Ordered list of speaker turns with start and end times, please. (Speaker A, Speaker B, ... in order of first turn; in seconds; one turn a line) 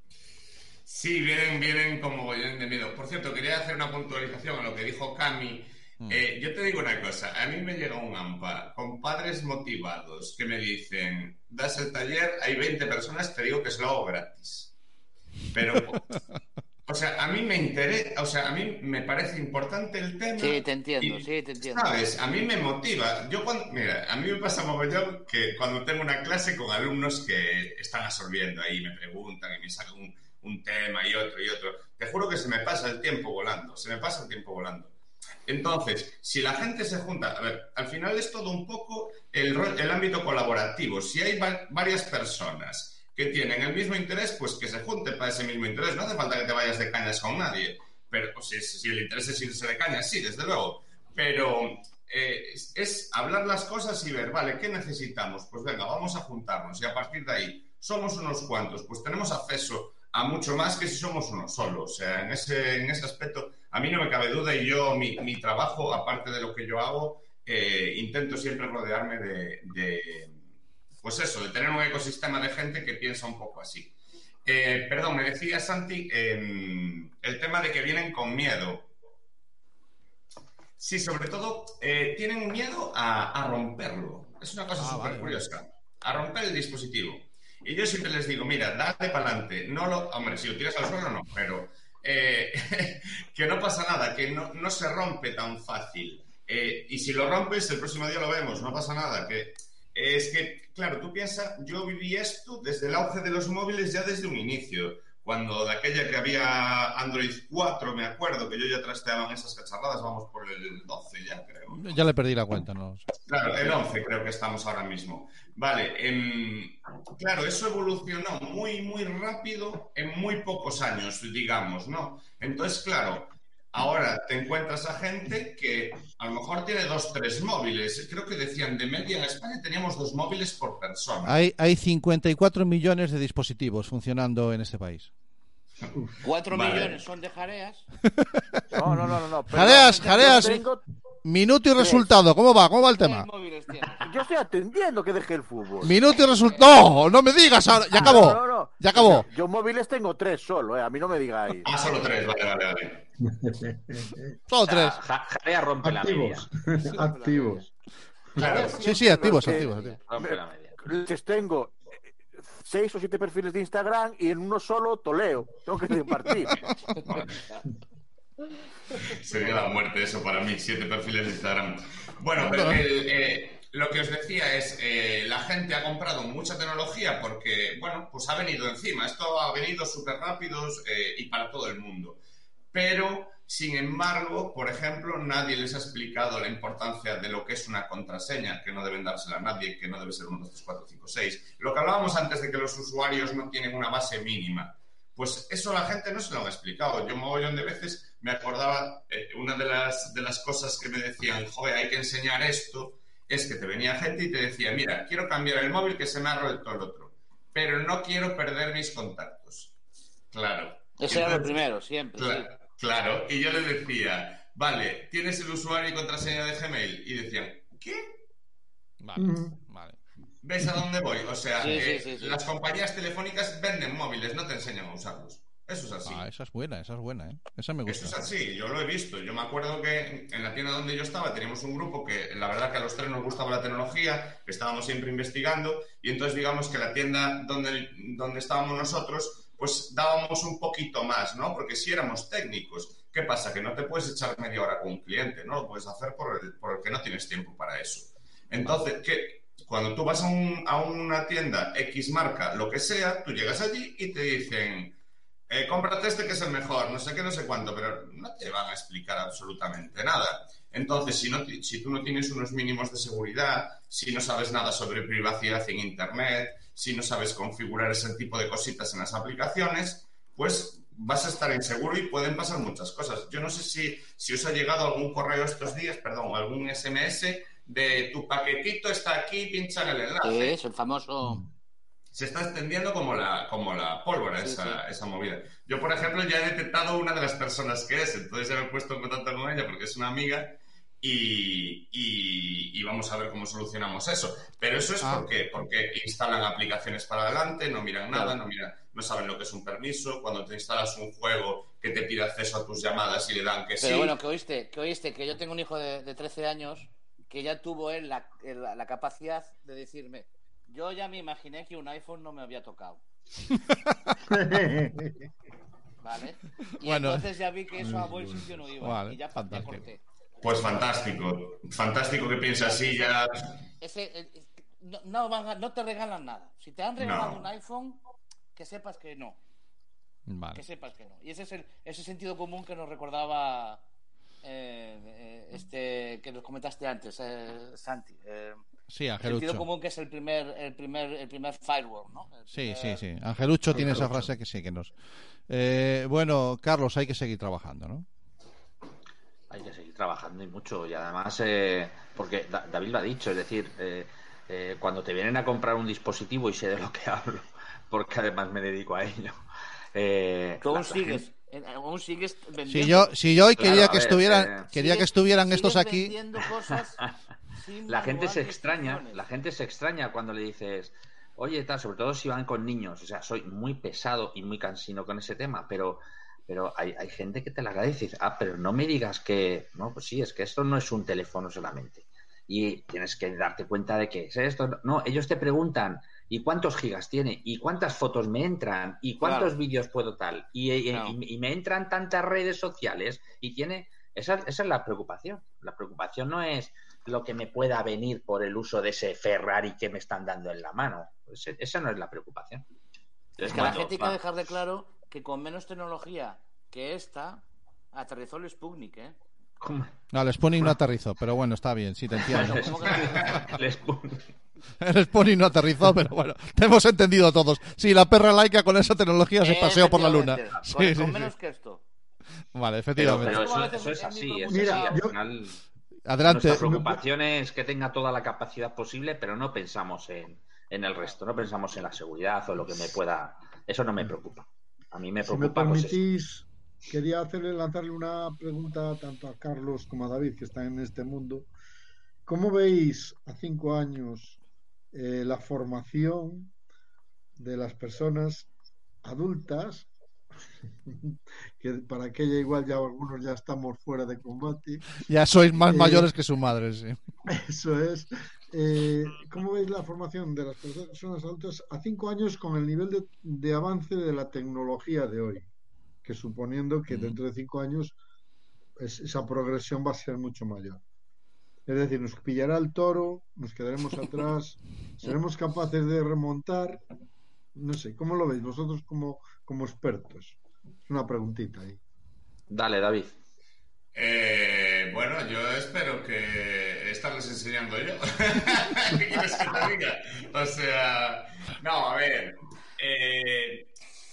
Speaker A: 0.8-14.7
Speaker A: 15.5-16.0
Speaker B: 15.6-16.4
Speaker A: 16.9-34.9
Speaker C: 20.4-22.0
Speaker A: 35.5-70.4
Speaker A: 71.0-78.9
Speaker A: 80.8-111.9
Speaker B: 84.8-85.5
Speaker B: 111.7-113.1
Speaker A: 113.3-131.4
Speaker B: 131.2-135.1
Speaker C: 136.2-137.8
Speaker A: 136.5-137.0
Speaker B: 138.1-138.9
Speaker D: 138.7-140.8
Speaker E: 138.8-139.1
Speaker B: 139.5-140.7
Speaker B: 141.2-143.3
Speaker D: 141.8-142.1
Speaker C: 143.0-144.1
Speaker D: 144.0-145.9
Speaker B: 145.8-149.3
Speaker C: 146.2-146.7
Speaker D: 147.9-151.7
Speaker A: 151.6-153.0
Speaker E: 153.2-154.3
Speaker B: 154.5-155.0
Speaker F: 154.6-156.5
Speaker E: 155.8-157.7
Speaker C: 156.8-157.7
Speaker C: 158.4-159.9
Speaker A: 158.4-158.8
Speaker B: 158.8-160.0
Speaker D: 159.2-166.6
Speaker F: 159.8-160.8
Speaker A: 167.0-167.4
Speaker A: 168.9-182.2
Speaker B: 172.4-172.9
Speaker A: 182.7-209.7
Speaker A: 210.3-211.6
Speaker C: 211.0-212.5
Speaker A: 212.2-218.1
Speaker B: 219.0-220.0
Speaker E: 219.2-219.6
Speaker A: 220.4-226.3
Speaker C: 221.6-222.4
Speaker B: 226.0-228.2
Speaker A: 227.8-255.0
Speaker A: 255.5-280.5
Speaker C: 280.2-281.4
Speaker A: 282.1-304.1
Speaker C: 284.4-284.8
Speaker B: 295.0-295.3
Speaker C: 298.1-298.4
Speaker C: 303.8-313.0
Speaker B: 313.6-314.2
Speaker E: 314.3-315.2
Speaker C: 316.0-320.0
Speaker B: 316.8-317.3
Speaker E: 317.8-318.5
Speaker B: 318.8-319.8
Speaker A: 320.4-323.3
Speaker C: 322.7-323.0
Speaker C: 323.8-328.0
Speaker A: 327.0-327.5
Speaker C: 328.5-329.4
Speaker B: 330.2-330.6
Speaker C: 330.5-333.8
Speaker C: 334.4-338.6
Speaker B: 338.9-339.7
Speaker C: 339.2-343.0
Speaker B: 342.5-344.9
Speaker B: 345.5-348.1
Speaker F: 349.5-359.4
Speaker F: 359.9-361.3
Speaker C: 360.6-363.1
Speaker B: 362.7-366.1
Speaker F: 363.5-364.7
Speaker C: 364.7-367.0
Speaker C: 367.6-369.2
Speaker F: 367.9-402.6
Speaker C: 389.2-389.5
Speaker F: 403.4-404.2
Speaker C: 403.5-409.1
Speaker F: 409.6-409.9
Speaker B: 410.1-413.4
Speaker F: 412.1-414.3
Speaker C: 412.3-413.5
Speaker B: 414.8-421.3
Speaker C: 419.4-421.8
Speaker B: 422.5-423.5
Speaker F: 422.9-425.6
Speaker C: 423.1-425.0
Speaker E: 424.5-425.2
Speaker B: 426.1-426.8
Speaker F: 426.2-436.0
Speaker E: 426.5-426.9
Speaker E: 435.2-441.5
Speaker E: 442.2-444.4
Speaker E: 444.9-446.5
Speaker E: 447.4-448.5
Speaker E: 449.0-449.9
Speaker E: 450.9-454.9
Speaker B: 455.0-457.0
Speaker E: 455.6-456.1
Speaker E: 457.3-465.5
Speaker E: 466.0-468.0
Speaker B: 466.9-467.2
Speaker E: 468.8-470.8
Speaker E: 471.7-476.8
Speaker E: 477.5-481.8
Speaker F: 482.5-483.1
Speaker A: 483.9-493.7